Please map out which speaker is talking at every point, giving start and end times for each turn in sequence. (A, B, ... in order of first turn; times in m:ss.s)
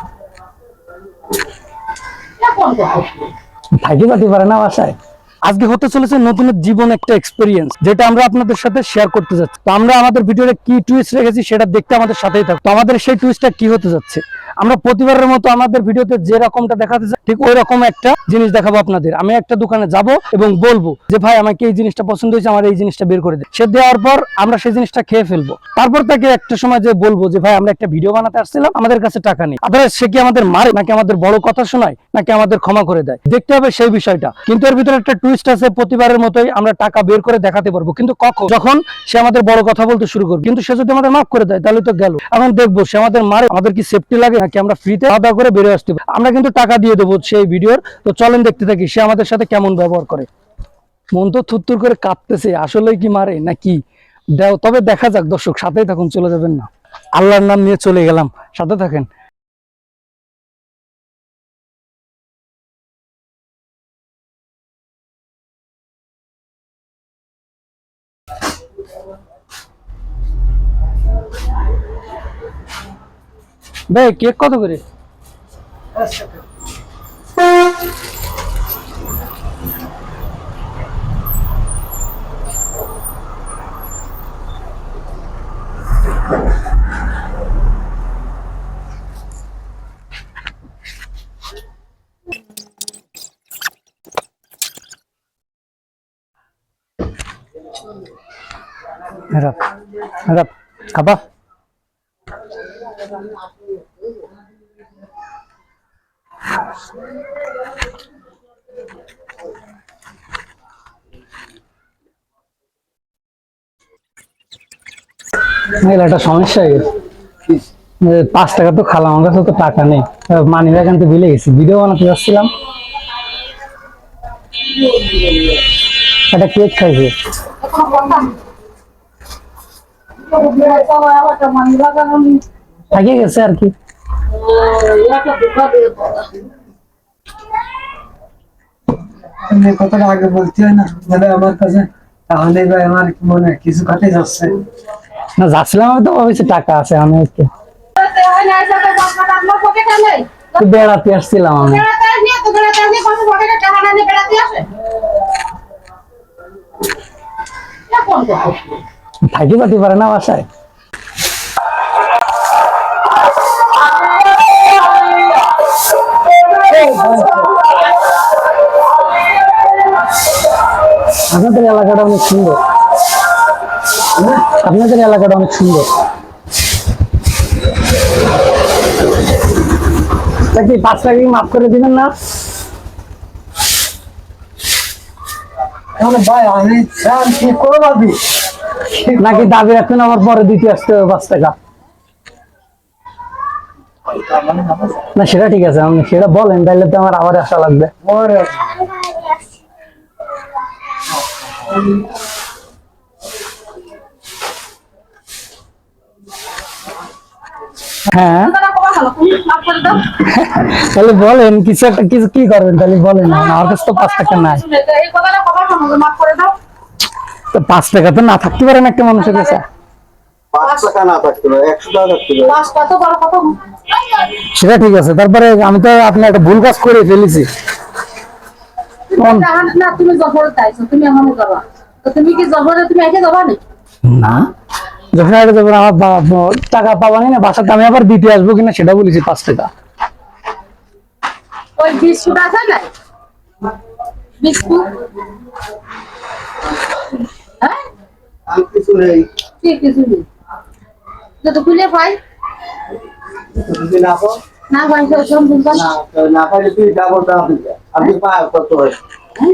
0:02.4-0:03.2 A
0:03.8-0:50.3 B
0:51.1-0:53.8 B
0:54.4-0:59.1 B
1:13.9-1:14.8 B
1:16.0-1:16.2 C
1:39.3-1:39.6 B
1:40.2-1:41.2 B
1:55.8-1:56.9 B
1:58.0-2:02.5 B
2:06.3-2:07.1 B
2:07.6-2:08.4 A
2:10.3-2:12.4 A
2:12.9-2:13.7 B
2:14.3-2:16.3 A
2:19.5-2:24.6 C
2:25.4-2:27.5 B
2:28.0-2:30.9 A
2:30.6-2:31.8 B
2:31.6-2:34.7 A
2:37.9-2:38.7 A
2:39.3-2:40.4 B
2:46.7-2:47.5 B
2:51.3-2:52.6 B
2:54.2-2:54.4 C
2:54.5-2:55.9 B
3:00.5-3:02.1 B
3:06.0-3:08.2 C
3:08.9-3:09.5 C
3:09.2-3:11.5 B
3:14.1-3:15.1 C
3:15.1-3:17.9 B
3:18.0-3:18.8 C
3:28.1-3:28.5 B
3:28.1-3:30.1 A
3:30.2-3:34.6 B
3:33.2-3:36.5 A
3:37.5-3:39.6 B
3:39.2-3:39.6 A
3:40.5-3:42.5 D
3:42.4-3:44.3 A
3:44.5-3:47.5 B
3:49.1-3:53.6 A
3:49.2-3:49.5 B
3:54.1-3:54.5 B
3:55.1-3:59.7 B
4:01.8-4:02.9 A
4:04.4-4:04.9 A
4:08.5-4:09.3 D
4:09.6-4:10.2 A
4:11.4-4:12.2 A
4:13.5-4:14.4 D
4:14.7-4:15.9 A
4:15.7-4:19.0 D